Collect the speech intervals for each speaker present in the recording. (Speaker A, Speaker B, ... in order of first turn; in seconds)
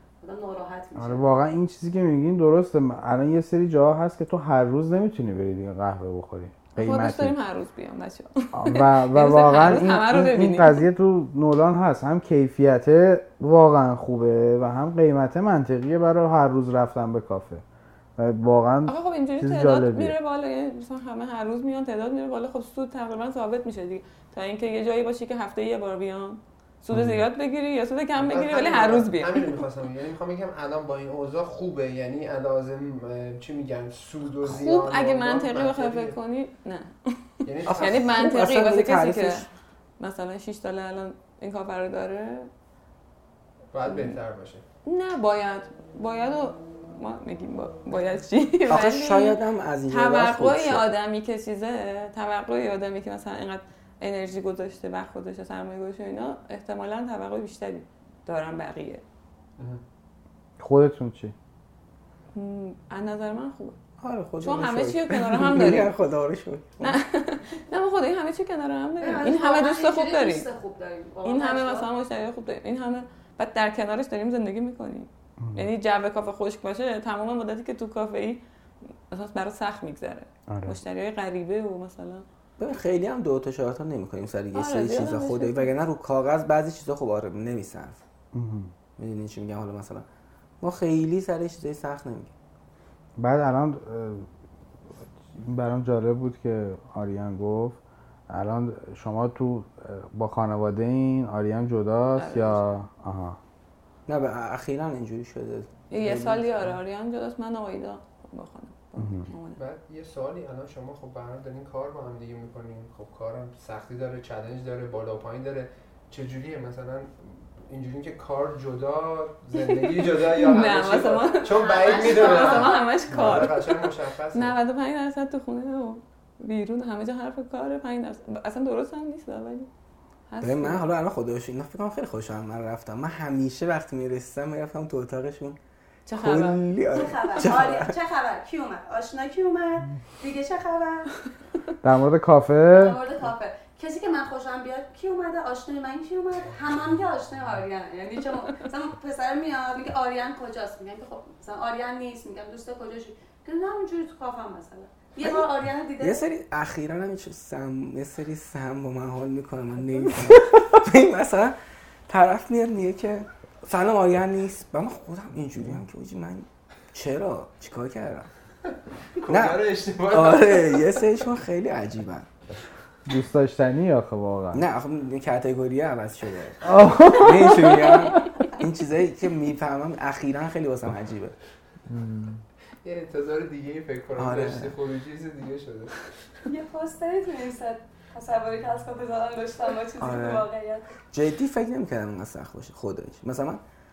Speaker A: 0.2-1.2, 69.0-71.9, 121.4-123.0, 136.9-141.1, 142.7-156.2, 186.4-190.9
Speaker B: 1.0-7.3, 8.5-17.6, 18.2-20.1, 26.9-27.2, 60.6-61.3, 75.4-75.7, 80.5-80.8, 88.3-88.7, 93.2-94.3, 95.3-97.8, 98.3-103.4, 109.0-109.3, 141.8-143.0, 173.1-174.6, 176.6-178.2, 181.9-182.4
Speaker C: 6.8-10.8, 18.9-29.6, 34.4-39.5, 40.0-42.5, 43.9-44.2, 44.9-49.4, 49.9-59.0, 62.3-63.8, 64.4-65.9, 66.8-70.5, 71.2-78.4, 79.1-82.2, 84.5-85.7, 102.1-102.7, 105.9-109.6, 119.5-129.7, 130.3-130.8, 136.1-136.6
Speaker D: 28.1-36.2, 37.4-38.2, 43.7-44.6, 109.6-124.5, 169.2-171.0, 182.8-185.9
Speaker E: 37.6-39.5, 48.7-50.9, 64.0-67.0, 82.6-88.0, 89.0-90.0, 90.6-92.3, 104.1-106.6, 130.4-135.6, 136.1-137.9, 156.0-161.6, 162.1-168.3, 169.3-172.3, 174.5-181.3, 184.2-184.8, 190.0-190.4, 191.1-193.6